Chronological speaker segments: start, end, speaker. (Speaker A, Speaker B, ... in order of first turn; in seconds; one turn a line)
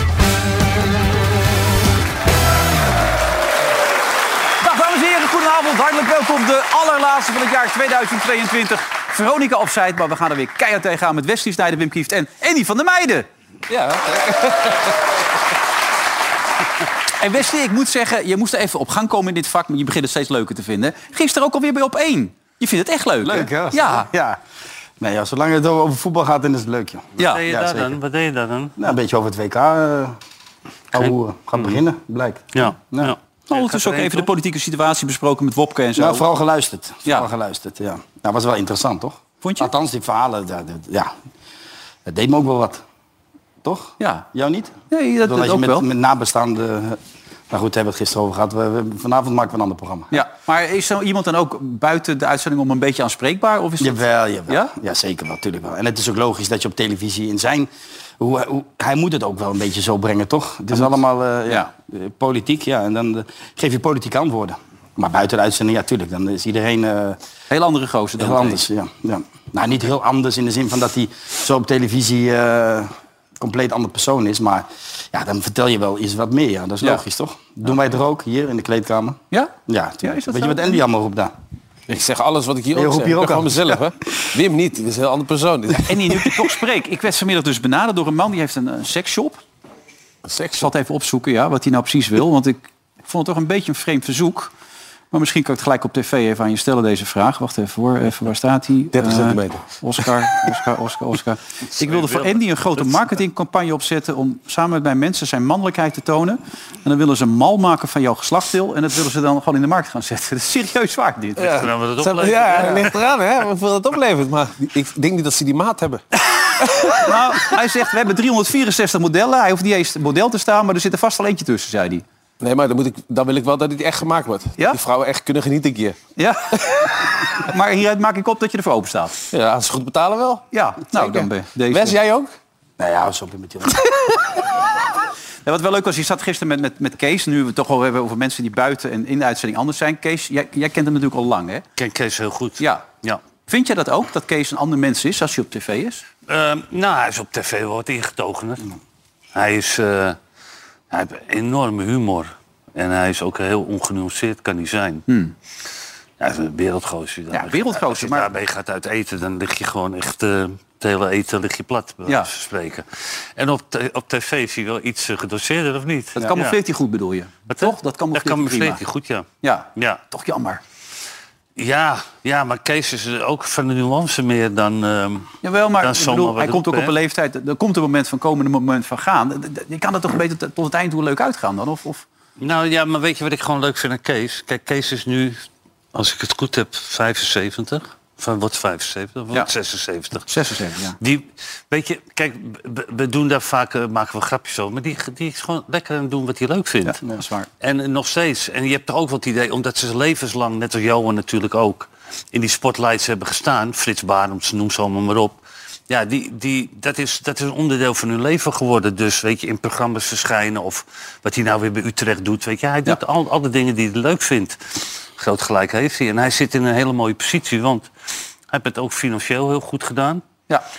Speaker A: 4.6-14.8
Speaker A: 17.2-24.1
Speaker B: 23.2-24.4
Speaker B: 25.0-27.9
Speaker C: 27.2-28.8
Speaker B: 28.8-30.2
Speaker B: 30.9-33.1
Speaker C: 30.9-31.8
Speaker C: 32.5-34.3
Speaker A: 33.5-36.2
Speaker B: 36.0-41.1
Speaker A: 39.4-39.7
Speaker B: 42.0-42.8
Speaker B: 43.6-44.7
Speaker A: 44.0-44.2
Speaker A: 44.9-45.9
Speaker B: 45.2-47.0
Speaker B: 47.5-50.2
Speaker A: 50.1-54.7
Speaker B: 53.8-67.2
Speaker A: 67.5-68.6
Speaker B: 68.2-81.3
Speaker A: 79.3-80.8
Speaker D: 81.9-86.3
Speaker B: 82.7-83.5
Speaker A: 85.8-89.4
Speaker D: 90.3-90.7
Speaker A: 90.6-94.5
Speaker A: 95.1-111.7
Speaker D: 98.9-99.7
Speaker C: 101.8-102.8
Speaker D: 111.4-117.5
Speaker C: 111.5-112.9
Speaker A: 117.0-122.0
Speaker D: 122.4-126.0
Speaker A: 126.2-129.2
Speaker D: 129.3-132.3
Speaker A: 130.5-131.9
Speaker B: 132.8-133.8
Speaker A: 135.4-141.6
Speaker C: 141.8-143.2
Speaker A: 143.5-146.0
Speaker C: 146.3-148.7
Speaker C: 149.3-150.2
Speaker C: 150.9-155.0
Speaker A: 155.1-155.3
Speaker C: 156.2-166.6
Speaker A: 157.3-158.3
Speaker A: 166.2-168.8
Speaker C: 167.5-170.0
Speaker A: 169.4-170.6
Speaker C: 171.6-176.9
Speaker A: 175.4-182.1
Speaker C: 182.4-190.3
Speaker A: 190.2-191.0
Speaker C: 191.0-197.0
Speaker A: 197.0-197.5
Speaker C: 197.6-205.4
Speaker C: 205.9-217.9
Speaker C: 218.5-220.2